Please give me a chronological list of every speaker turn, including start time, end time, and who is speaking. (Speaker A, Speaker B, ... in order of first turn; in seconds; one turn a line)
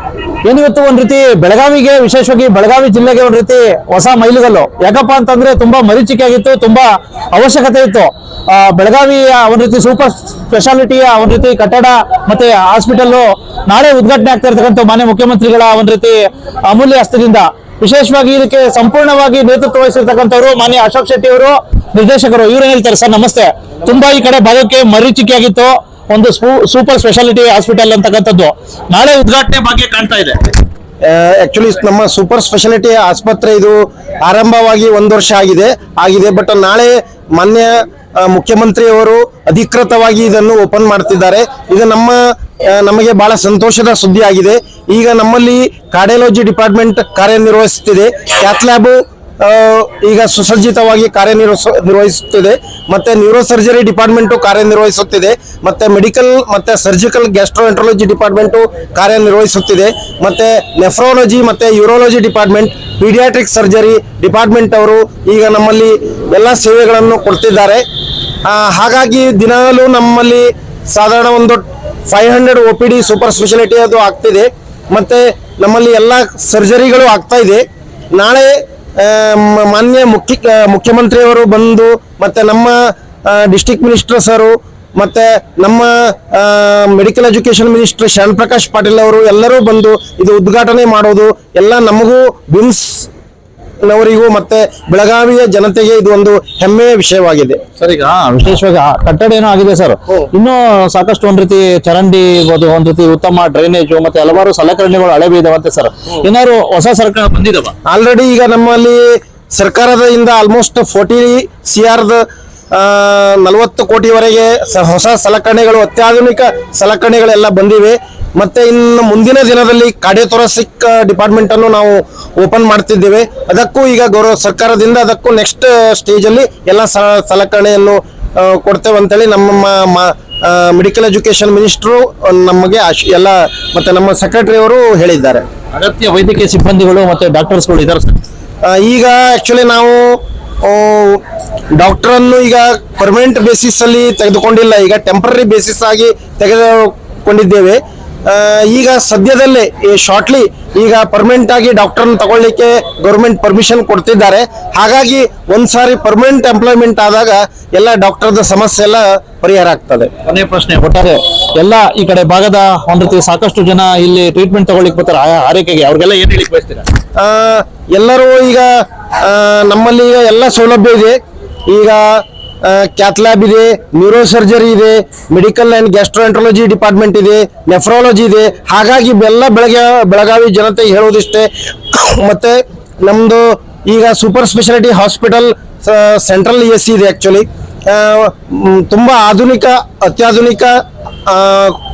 Speaker A: 0.5-30.5
Speaker B: 31.0-67.8
Speaker B: 68.5-77.6
Speaker B: 78.1-93.1
Speaker B: 93.8-97.6
Speaker A: 97.8-107.7
Speaker B: 107.9-135.4
Speaker A: 135.7-138.2
Speaker B: 138.7-141.2
Speaker B: 141.8-160.1
Speaker A: 160.3-166.9
Speaker B: 167.2-168.7
Speaker B: 169.2-190.8
Speaker B: 191.3-191.8